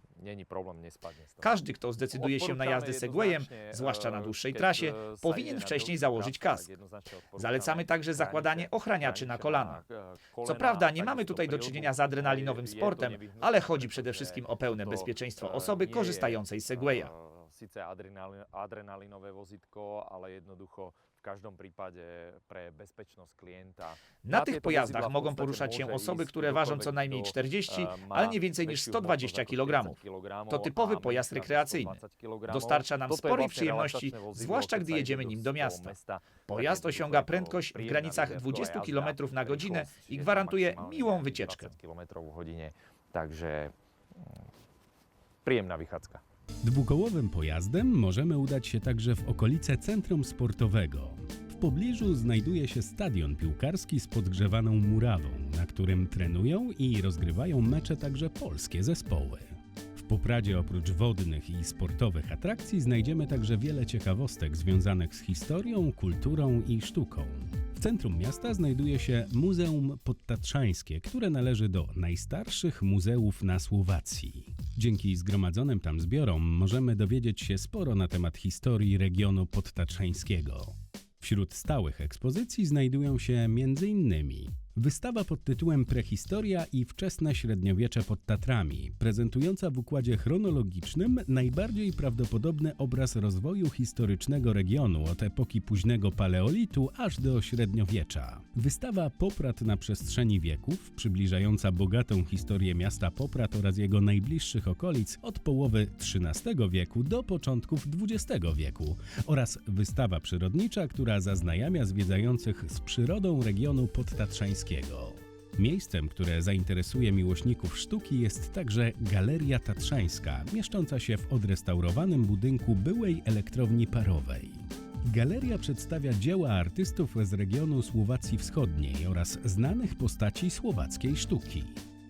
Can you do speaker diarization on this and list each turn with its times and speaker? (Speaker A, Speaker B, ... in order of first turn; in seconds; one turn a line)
Speaker A: 0.2-1.6
Speaker B: 1.4-6.7
Speaker A: 2.1-43.7
Speaker B: 7.3-9.8
Speaker B: 10.4-17.1
Speaker B: 24.2-35.9
Speaker B: 36.5-41.8
Speaker A: 45.4-46.2
Speaker C: 46.6-131.8